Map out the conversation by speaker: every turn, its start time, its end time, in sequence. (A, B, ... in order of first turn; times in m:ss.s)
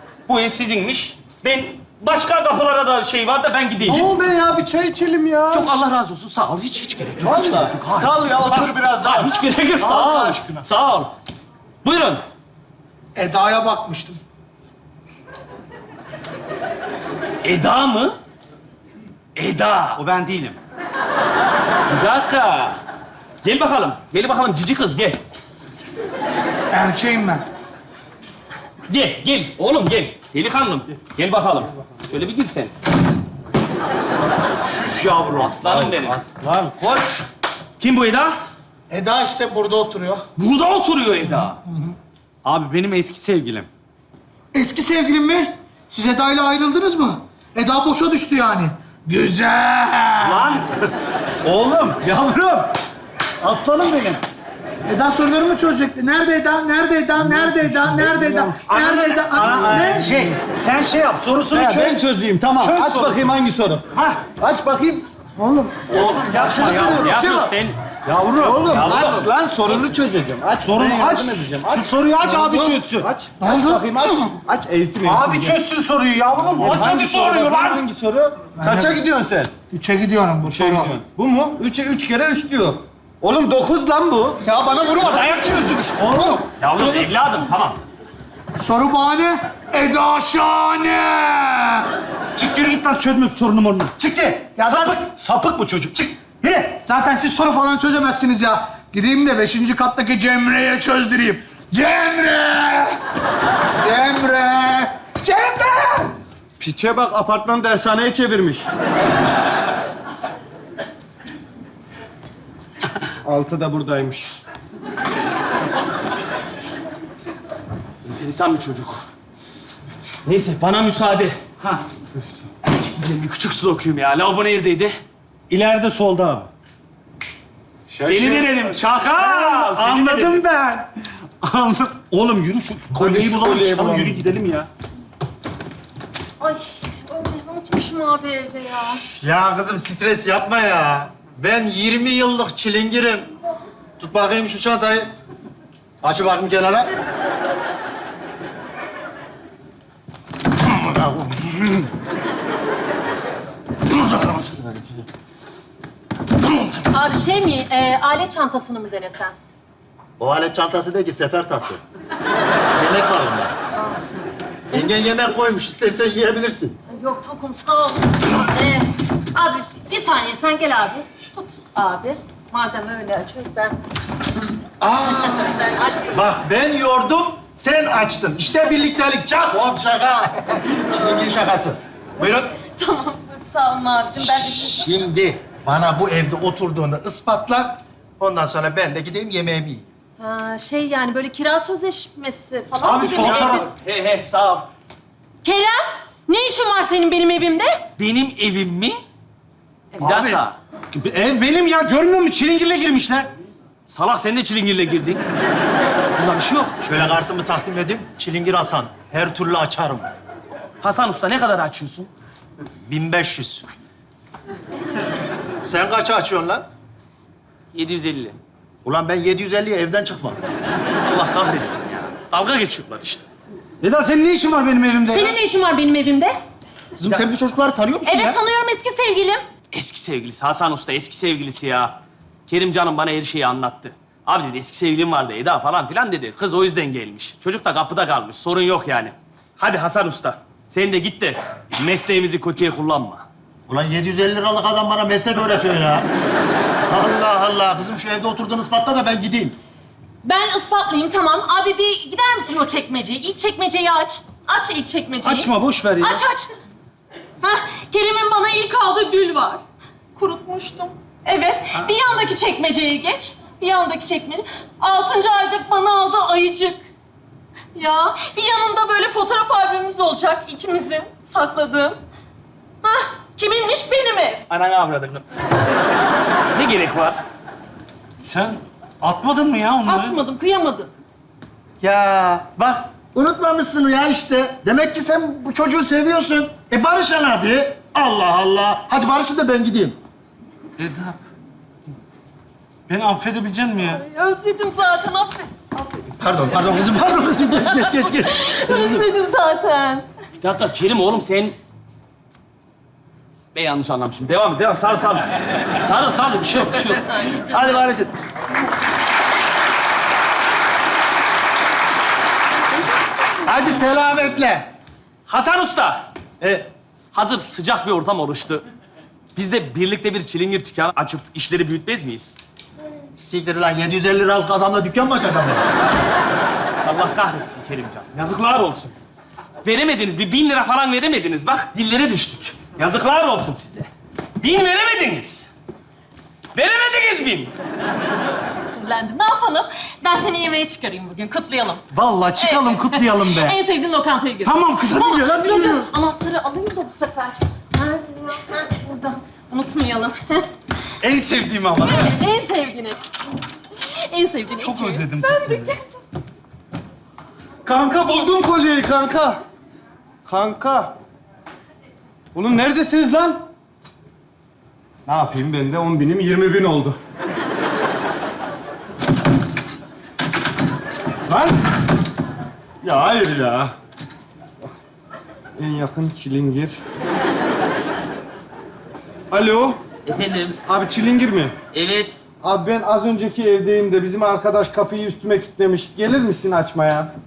0:00.3-0:04.1 A
0:03.8-0:05.7 B
0:05.5-0:11.1 A
0:07.2-0:10.6 B
0:11.8-0:12.2 A
0:13.2-0:14.2 C
0:17.4-0:18.2 A
0:19.4-0:20.0 A
0:20.0-0:20.6 D
0:21.9-0:22.8 A
0:23.4-0:25.2 A
0:26.7-0:27.4 C
0:28.9-0:32.7 A
0:34.6-0:37.0 B
0:35.4-0:36.2 A
0:37.8-0:38.4 A
0:38.9-0:40.2 C
0:40.4-0:41.6 A
0:41.7-0:41.9 C
0:42.4-0:43.7 D
0:44.5-0:50.5 C
0:50.2-0:50.7 D
0:51.4-0:52.7 D
0:53.4-0:54.2 D
0:54.9-1:00.3 C
0:57.2-0:58.6 B
0:58.0-1:03.4 D
0:59.6-1:00.2 B
1:01.5-1:05.9 B
1:04.0-1:04.3 D
1:05.9-1:07.8 A
1:06.0-1:07.5 D
1:06.3-1:06.9 C
1:06.4-1:06.9 B
1:08.1-1:09.8 D
1:08.1-1:12.3 B
1:08.6-1:09.3 A
1:10.5-1:13.2 D
1:12.2-1:12.8 C
1:12.9-1:15.6 B
1:13.4-1:14.2 C
1:15.0-1:17.8 D
1:16.5-1:19.5 B
1:18.6-1:19.0 C
1:19.7-1:20.9 C
1:20.4-1:24.4 B
1:24.4-1:26.4 C
1:25.0-1:26.4 B
1:26.6-1:27.8 A
1:28.6-1:31.9 C
1:32.4-1:36.8 D
1:34.5-1:35.0 C
1:36.7-1:43.0 C
1:43.8-1:46.1 C
1:46.6-1:48.6 B
1:53.2-1:54.3 B
1:58.0-1:59.0 A
2:00.2-2:01.4 A
2:02.6-2:05.0 A
2:05.5-2:06.5 D
2:07.9-2:08.8 B
2:08.0-2:10.4 A
2:09.2-2:10.9 D
2:11.4-2:14.7 D
2:12.9-2:14.6 B
2:16.4-2:19.0 E
2:19.2-2:23.3 F
2:24.0-2:25.1 F
2:26.0-2:26.9 F
2:30.7-2:31.9 F
2:33.9-2:35.1 F
2:36.9-2:39.3 E
2:40.2-2:41.8 F
2:42.8-2:43.5 F
2:44.7-2:46.8 F
2:46.9-2:53.8 E
2:54.8-3:02.5 F
2:55.2-2:56.2 E
3:02.6-3:04.9 E
3:04.2-3:09.9 F
3:10.2-3:13.7 E
3:12.8-3:13.6 D
3:13.1-3:14.7 A
3:15.4-3:17.7 E
3:18.0-3:19.0 A
3:20.0-3:20.6 A
3:20.0-3:20.4 D
3:20.9-3:23.3 D
3:23.9-3:25.2 A
3:26.2-3:26.7 A
3:26.8-3:30.1 F
3:30.8-3:32.1 A
3:32.9-3:33.6 F
3:35.6-3:36.6 F
3:37.7-3:38.4 A
3:38.8-3:40.4 F
3:41.1-3:43.2 A
3:43.8-3:45.4 D
3:45.0-3:46.3 E
3:47.0-3:48.4 F
3:48.0-3:49.4 E
3:49.7-3:51.9 A
3:52.5-4:03.2 A
4:03.7-4:06.0 F
4:06.9-4:09.6 F
4:10.2-4:16.5 E
4:15.2-4:16.2 D
4:17.4-4:19.6 E
4:20.2-4:26.8 E
4:27.7-4:32.0 E
4:32.8-4:34.4 E
4:34.5-4:35.2 A
4:36.5-4:37.2 A
4:38.2-4:40.2 D
4:39.8-4:40.9 E
4:41.8-4:50.0 F
4:50.8-4:51.2 D
4:52.9-4:54.0 D
4:53.9-4:55.9 E
4:56.1-4:59.0 F
4:57.6-5:00.0 E
5:00.4-5:01.5 A
5:03.5-5:07.0 A
5:07.1-5:07.4 E
5:07.3-5:08.1 F
5:13.4-5:14.7 F
5:15.3-5:16.0 A
5:16.4-5:16.7 F
5:17.1-5:18.6 A
5:19.3-5:22.4 A
5:23.2-5:25.7 F
5:26.8-5:28.9 A
5:29.6-5:35.5 A
5:36.5-5:37.5 A
5:38.7-5:41.8 E
5:41.9-5:43.6 D
5:42.4-5:50.5 E
5:44.4-5:45.9 D
5:51.0-5:52.2 D
5:51.8-5:53.0 E
5:54.1-5:55.8 E
5:54.6-5:55.7 D
5:57.6-5:59.4 B
6:00.2-6:00.9 B
6:02.3-6:03.4 B
6:05.0-6:07.0 B
6:11.3-6:11.5 B
6:12.8-6:13.7 B
6:15.6-6:16.8 B
6:19.3-6:19.8 B
6:20.0-6:20.6 A
6:20.6-6:21.5 B
6:21.7-6:22.2 A
6:22.4-6:27.1 B